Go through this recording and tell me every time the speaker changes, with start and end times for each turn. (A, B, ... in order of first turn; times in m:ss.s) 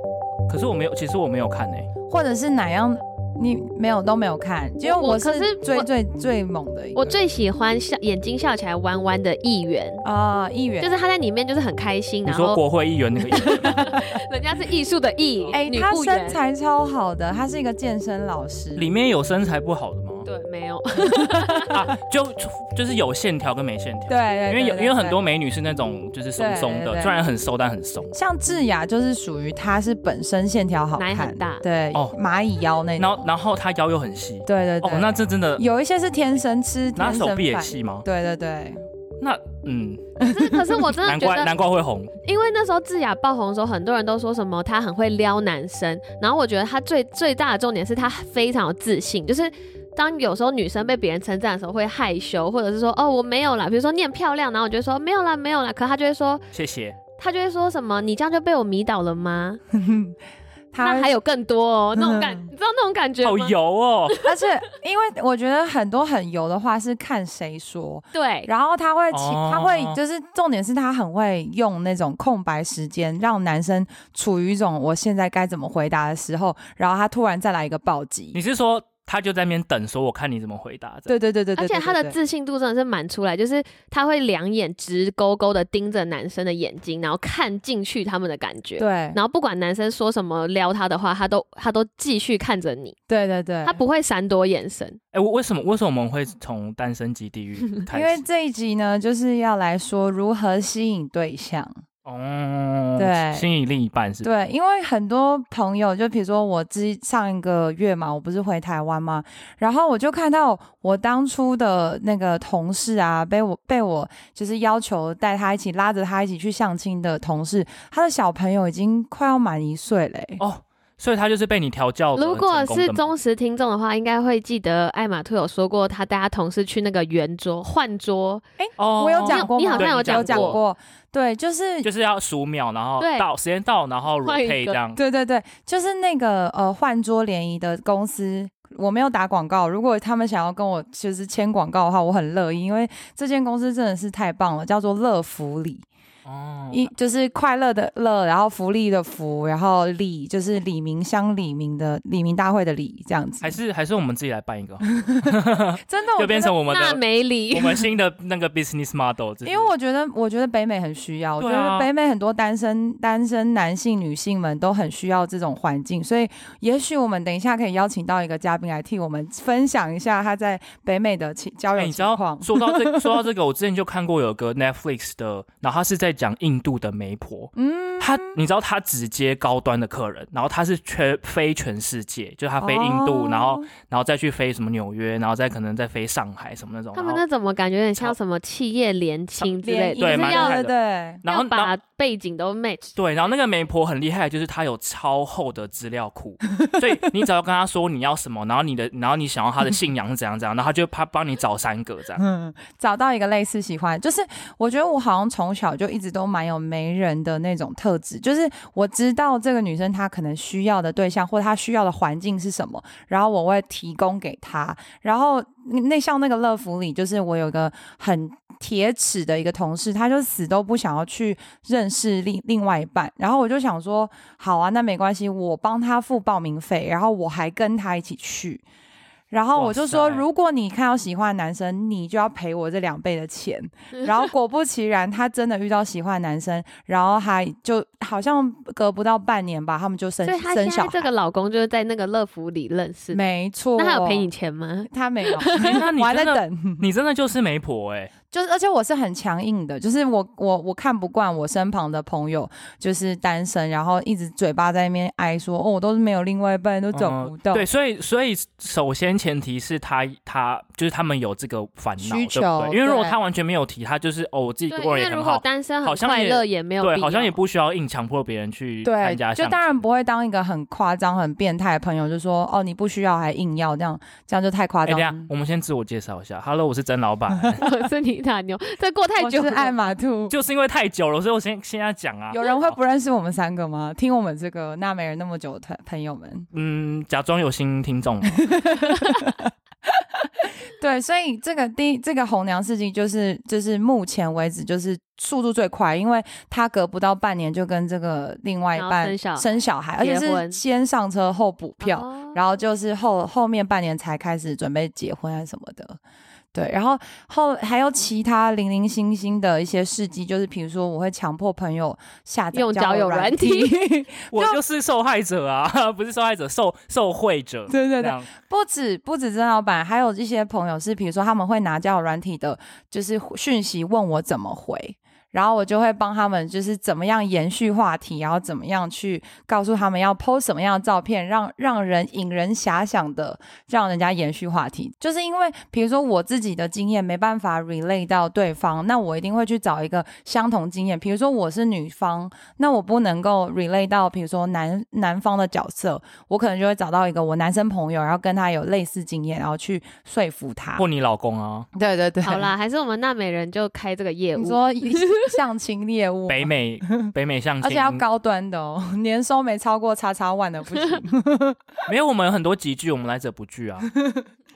0:00.5-0:01.9 A
0:02.1-0:07.0 B
0:04.8-0:05.9 C
0:07.0-0:10.0 C
0:10.0-0:10.9 B
0:10.8-0:12.6 C
0:12.2-0:13.9 A
0:13.3-0:16.4 C
0:15.5-0:18.9 B
0:18.8-0:20.3 A
0:20.2-0:21.8 C
0:21.4-0:21.7 B
0:21.7-0:28.1 A
0:24.1-0:25.2 B
0:26.4-0:27.2 B
0:28.1-0:33.2 B
0:31.0-0:31.6 C
0:33.0-0:35.6 A
0:34.4-0:38.8 B
0:37.0-0:38.0 A
0:39.2-0:40.2 A
0:40.2-0:41.5 C
0:40.2-0:40.6 B
0:41.0-0:42.1 A
0:42.2-0:56.4 C
0:56.5-0:57.0 A
0:57.2-0:59.6 C
0:59.7-1:00.2 B
1:00.7-1:01.1 B
1:00.8-1:03.5 C
1:01.9-1:02.4 B
1:03.2-1:04.2 A
1:04.1-1:04.4 C
1:04.2-1:18.4 B
1:08.1-1:08.5 C
1:09.1-1:10.0 A
1:18.3-1:21.1 A
1:21.1-1:22.2 B
1:21.6-1:33.0 C
1:28.8-1:29.2 B
1:33.1-1:33.8 B
1:33.6-1:35.0 C
1:35.1-1:38.2 A
1:37.9-1:41.8 B
1:42.0-1:44.3 A
1:43.0-1:43.5 B
1:44.2-2:00.4 B
2:00.4-2:03.1 A
2:02.1-2:08.4 C
2:08.6-2:11.9 B
2:08.8-2:10.6 A
2:09.2-2:10.6 C
2:11.8-2:15.0 A
2:13.0-2:13.3 C
2:14.2-2:14.8 C
2:15.0-2:25.8 B
2:26.2-2:26.9 A
2:26.7-2:33.6 B
2:33.4-2:37.0 A
2:35.0-2:35.3 B
2:35.8-2:36.6 B
2:36.7-2:37.9 C
2:37.5-2:39.7 A
2:39.4-2:53.1 B
2:41.4-2:41.9 A
2:51.8-3:07.2 A
2:57.6-2:58.4 B
3:02.6-3:03.7 B
3:06.9-3:10.6 C
3:09.4-3:11.7 A
3:09.6-3:11.2 B
3:11.2-3:13.0 C
3:13.0-3:22.2 A
3:22.2-3:48.6 B
3:49.3-4:01.1 B
3:49.5-3:50.2 A
4:00.2-4:03.2 C
4:03.1-4:04.3 B
4:03.8-4:05.8 C
4:04.9-4:06.8 B
4:05.5-4:08.1 A
4:08.3-4:17.6 B
4:16.9-4:29.8 A
4:22.0-4:23.2 B
4:24.7-4:27.4 C
4:28.8-4:35.3 B
4:34.8-4:37.6 A
4:37.6-4:39.7 C
4:39.2-4:40.3 B
4:40.3-4:42.8 A
4:42.3-4:46.5 B
4:46.5-4:48.4 A
4:48.5-5:06.0 B
4:58.8-5:00.6 C
5:01.8-5:02.4 C
5:06.5-5:14.6 B
5:12.5-5:13.8 C
5:14.3-5:18.3 A
5:17.7-5:50.8 B
5:50.8-5:51.7 A
5:51.7-5:52.5 B
5:52.2-5:55.3 C
5:54.4-6:01.6 B
5:56.3-5:58.0 A
6:01.9-6:03.9 A